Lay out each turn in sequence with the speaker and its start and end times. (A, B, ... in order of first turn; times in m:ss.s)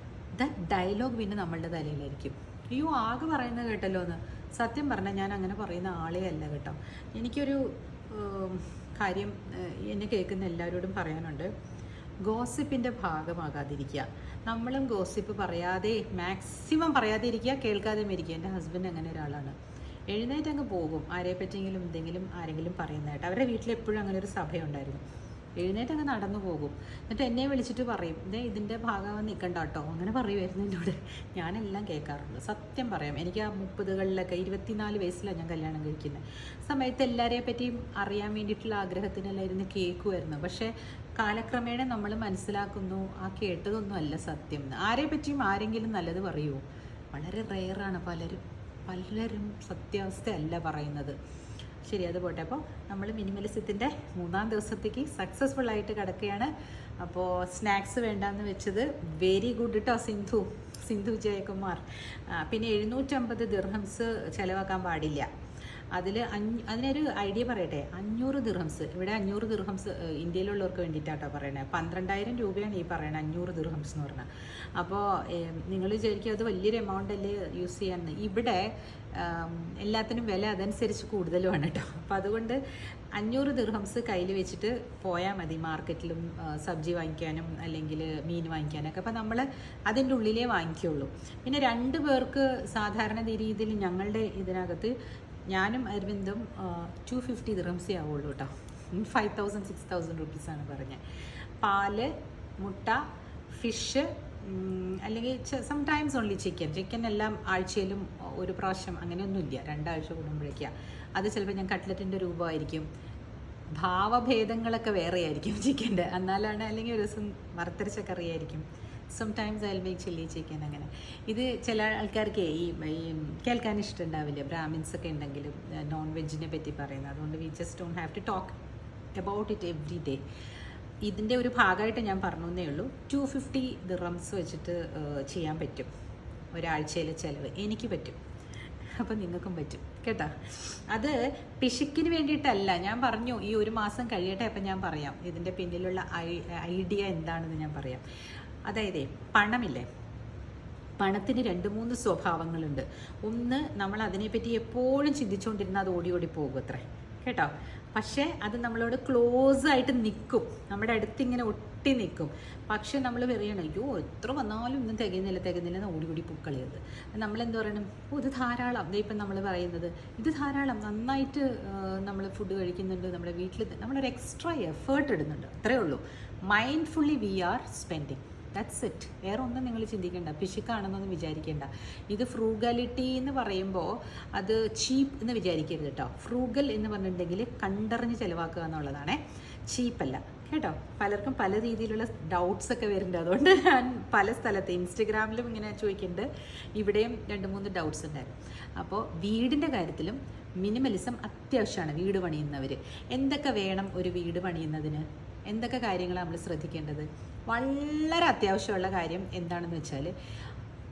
0:00.4-0:11.5 A
0:12.2-0:19.6 A
0:20.1-0:25.0 A
0:25.6-0:51.2 A
0:51.8-1:05.3 A
1:05.9-1:22.6 A
1:23.1-1:34.9 A
1:35.5-1:41.0 A
1:41.6-1:52.9 A
1:53.8-2:08.6 A
2:09.2-2:10.2 A
2:11.0-2:15.9 A
2:16.5-2:18.2 A
2:19.0-2:28.0 A
2:28.7-2:29.8 A
2:31.0-3:30.1 A